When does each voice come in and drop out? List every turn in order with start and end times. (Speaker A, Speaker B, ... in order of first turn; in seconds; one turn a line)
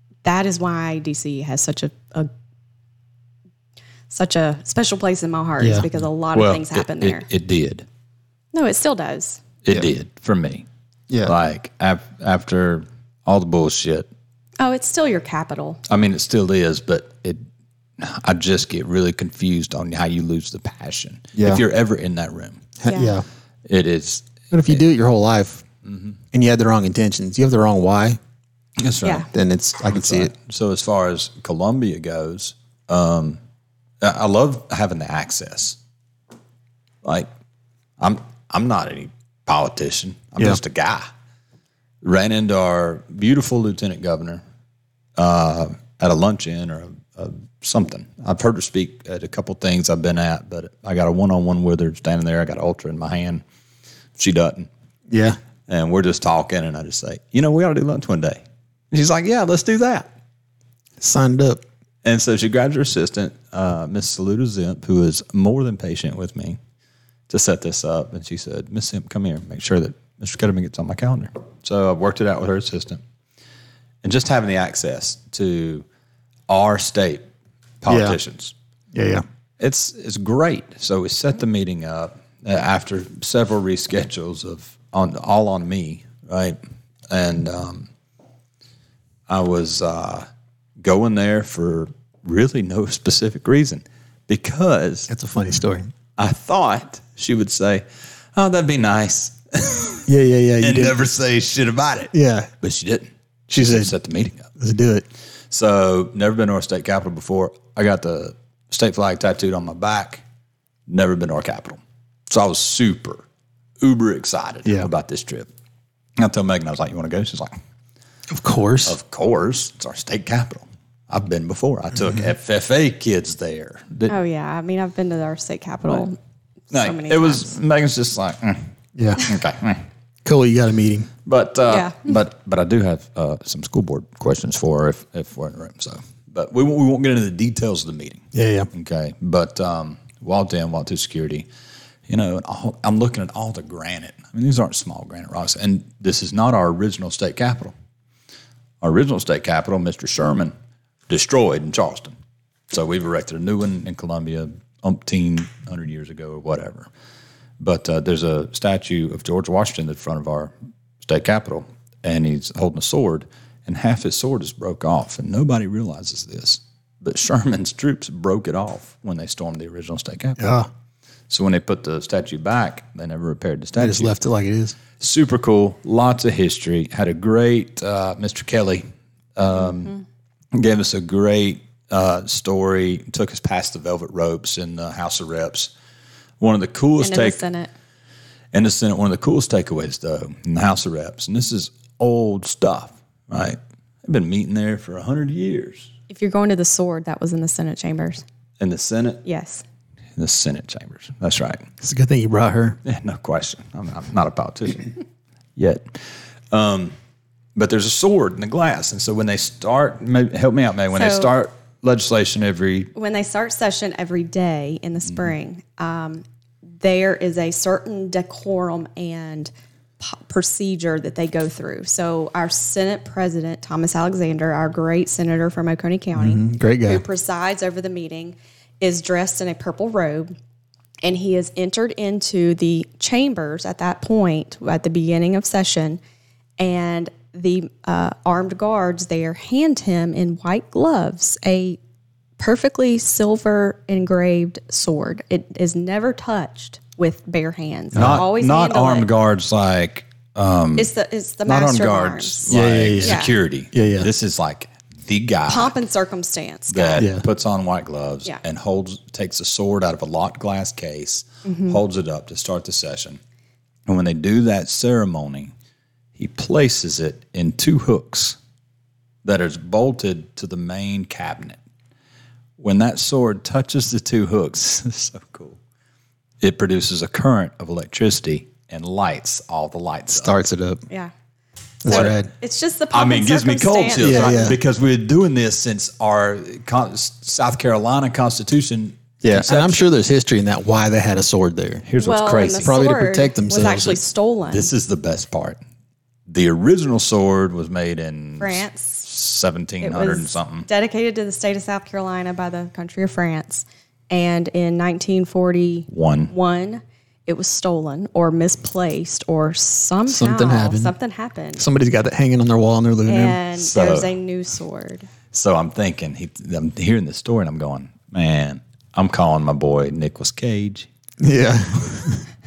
Speaker A: 0.2-2.3
Speaker A: 4.1-7.2
Speaker B: 5.6-5.9
Speaker C: 6.3-7.8
Speaker A: 8.5-9.4
Speaker C: 9.6-10.7
Speaker B: 11.1-11.3
Speaker C: 11.2-14.1
Speaker A: 14.6-15.8
Speaker C: 15.9-17.4
Speaker C: 18.0-22.7
Speaker B: 21.3-21.6
Speaker B: 22.8-23.2
Speaker A: 22.9-23.1
Speaker C: 23.6-24.8
Speaker B: 24.5-25.6
Speaker C: 25.8-26.2
Speaker B: 26.3-28.2
Speaker C: 28.8-29.3
Speaker A: 29.0-29.3
Speaker B: 29.3-30.3
Speaker C: 29.9-33.4
Speaker C: 34.0-35.8
Speaker C: 37.0-37.3
Speaker C: 38.0-41.1
Speaker C: 42.0-44.4
Speaker C: 45.2-53.4
Speaker C: 54.1-54.7
Speaker B: 55.1-55.4
Speaker C: 55.7-60.1
Speaker B: 61.0-61.6
Speaker C: 62.0-66.6
Speaker C: 67.3-73.0
Speaker C: 74.0-75.8
Speaker C: 76.5-77.3
Speaker C: 77.8-78.5
Speaker B: 77.9-78.2
Speaker B: 78.9-79.2
Speaker C: 79.6-86.6
Speaker C: 87.1-87.9
Speaker C: 89.3-90.2
Speaker C: 90.8-95.1
Speaker B: 95.1-95.9
Speaker C: 96.2-100.1
Speaker B: 100.1-101.0
Speaker C: 100.6-104.5
Speaker B: 102.1-102.5
Speaker B: 103.5-103.9
Speaker B: 104.6-105.0
Speaker C: 105.5-110.2
Speaker C: 110.9-113.2
Speaker C: 113.8-115.5
Speaker C: 116.2-117.6
Speaker B: 118.3-118.9
Speaker C: 118.8-124.2
Speaker A: 124.1-126.2
Speaker A: 126.7-127.5
Speaker C: 126.7-128.6
Speaker B: 128.9-129.2
Speaker C: 129.2-129.8
Speaker B: 130.2-131.1
Speaker C: 131.2-141.5
Speaker A: 131.7-131.9
Speaker B: 138.3-138.7
Speaker C: 142.1-147.7
Speaker C: 148.8-150.5
Speaker C: 151.1-152.1
Speaker C: 152.7-156.9
Speaker C: 157.6-170.5
Speaker B: 170.4-170.7
Speaker C: 171.3-174.1
Speaker B: 173.8-174.8
Speaker C: 175.0-179.9
Speaker C: 180.5-185.7
Speaker C: 186.4-187.4
Speaker A: 187.0-187.7
Speaker C: 188.5-195.9
Speaker A: 196.1-198.2
Speaker C: 198.6-199.2
Speaker A: 199.2-199.6
Speaker C: 200.2-201.6
Speaker B: 201.8-202.8
Speaker C: 202.8-205.0
Speaker C: 205.6-206.9
Speaker C: 207.6-212.9
Speaker A: 210.9-211.3
Speaker A: 212.9-216.2
Speaker A: 216.8-230.3
Speaker B: 226.2-227.0
Speaker A: 231.0-236.0
Speaker A: 236.6-241.8
Speaker A: 242.4-249.1
Speaker B: 247.9-248.2
Speaker C: 247.9-250.9
Speaker A: 250.8-253.3
Speaker C: 251.4-255.7
Speaker B: 252.5-254.1
Speaker A: 255.5-257.1
Speaker C: 256.7-263.2
Speaker B: 257.0-257.2
Speaker A: 261.4-261.8
Speaker C: 263.9-265.5
Speaker C: 266.1-268.4
Speaker C: 269.2-271.6
Speaker C: 272.6-275.6
Speaker C: 276.4-280.4
Speaker B: 280.1-280.8
Speaker B: 281.8-282.3
Speaker C: 281.9-282.1
Speaker A: 281.9-284.5
Speaker C: 282.9-289.9
Speaker B: 284.0-284.6
Speaker B: 289.2-291.9
Speaker C: 291.8-292.8
Speaker A: 292.0-294.7
Speaker B: 292.5-294.0
Speaker C: 294.5-295.6
Speaker C: 296.3-300.7
Speaker A: 298.4-299.0
Speaker A: 299.8-311.6
Speaker C: 305.9-306.3
Speaker B: 310.1-310.9
Speaker B: 311.6-313.4
Speaker A: 313.1-315.1
Speaker C: 313.6-314.1
Speaker C: 315.3-320.9
Speaker B: 321.2-322.2